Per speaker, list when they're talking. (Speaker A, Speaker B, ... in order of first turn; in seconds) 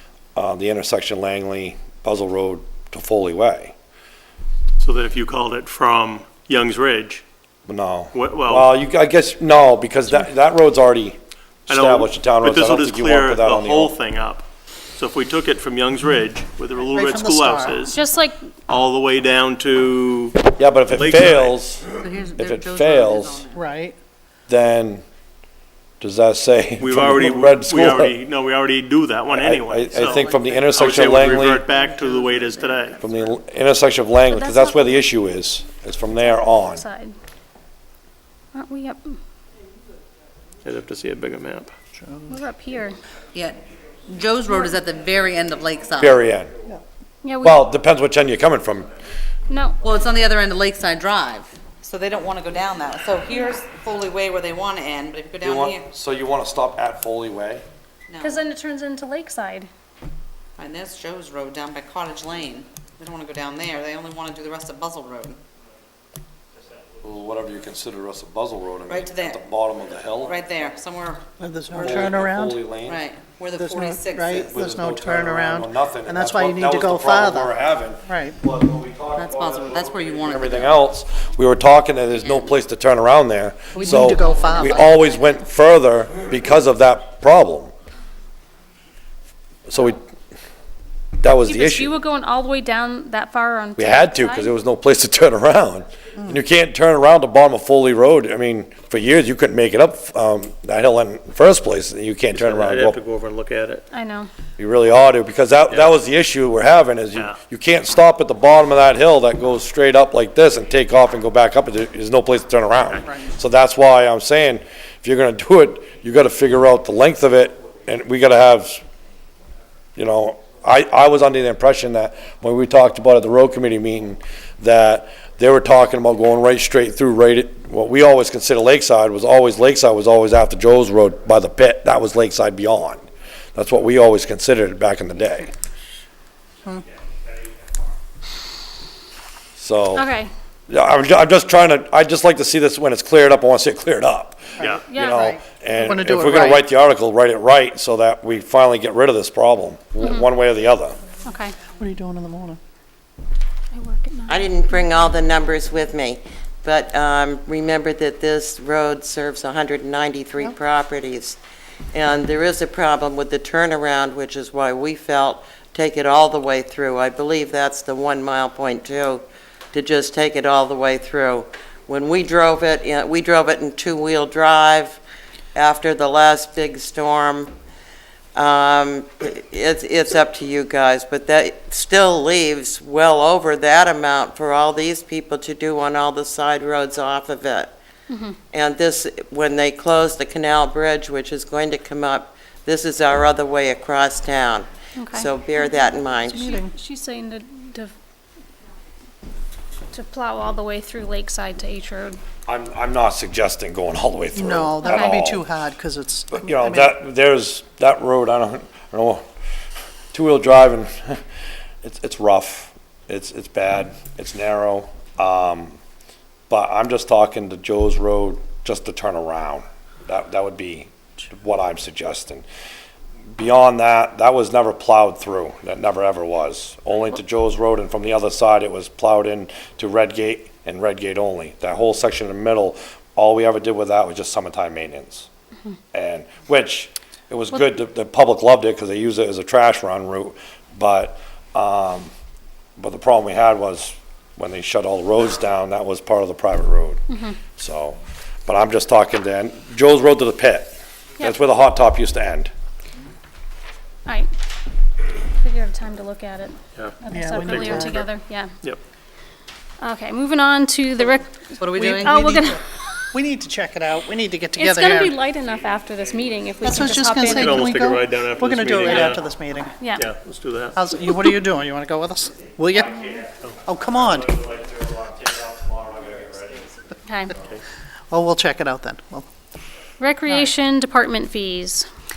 Speaker A: 0.4-3.7, 7.7-11.2, 11.7-13.9, 20.6-23.4, 24.5-25.0, 26.0-28.1, 29.3-31.7, 33.0-36.9, 46.0-46.5, 47.4-48.9, 55.4-57.6, 67.0-70.4, 71.8-73.0, 74.3-87.7, 89.7-90.0, 91.2-91.9, 93.8-103.0, 104.6-118.8, 120.0-133.0, 133.6-135.5, 139.6-140.1, 140.7-151.0, 202.5-205.5, 206.3-209.2, 210.1-211.2, 211.8-215.8, 216.5-222.4, 223.4-235.3, 235.9-242.1, 242.8-247.0, 247.6-252.5, 276.0-276.4
Speaker B: 4.8-7.2, 8.1-8.7, 11.7-14.4, 15.0-18.0, 18.7-21.6, 26.8-33.0, 40.6-41.7, 102.3-103.8, 256.8-257.8, 267.2-269.3, 269.9-270.8, 272.8-276.6
Speaker C: 16.8-17.8, 23.5-24.0, 31.2-32.9, 42.0-42.4, 71.4-72.7, 73.6-78.4, 83.7-85.0, 144.6-146.7, 151.8-152.6, 196.3-196.7, 204.3-207.0, 257.1-258.1, 261.8-262.6, 263.1-265.2, 266.6-269.8, 270.8-273.1, 273.6-274.5, 278.1-279.3
Speaker D: 17.9-18.4, 34.3-35.0, 36.2-37.2, 38.5-39.2, 42.3-43.0, 47.2-47.7, 49.5-49.8, 58.2-59.7, 91.5-94.5, 103.9-104.3, 139.9-140.3, 144.7-145.3, 150.0-150.3, 151.2-151.6, 153.7-154.4, 188.1-188.3, 195.0-197.9, 199.9-202.2, 204.8-205.2, 247.1-247.3, 255.4-258.5, 259.8-263.1, 264.6-268.0, 268.7-269.2, 269.8-270.1, 277.1-277.3, 280.0-281.9
Speaker E: 22.0-23.6, 30.1-30.9, 43.3-46.2, 49.8-55.9, 58.1-58.5, 60.6-65.4, 68.9-69.5, 70.2-72.2, 72.8-74.6, 79.2-80.8, 82.2-82.5, 84.2-84.5, 261.6-262.5
Speaker F: 154.3-161.4, 161.9-175.0, 175.5-177.5, 178.3-187.7, 188.5-196.4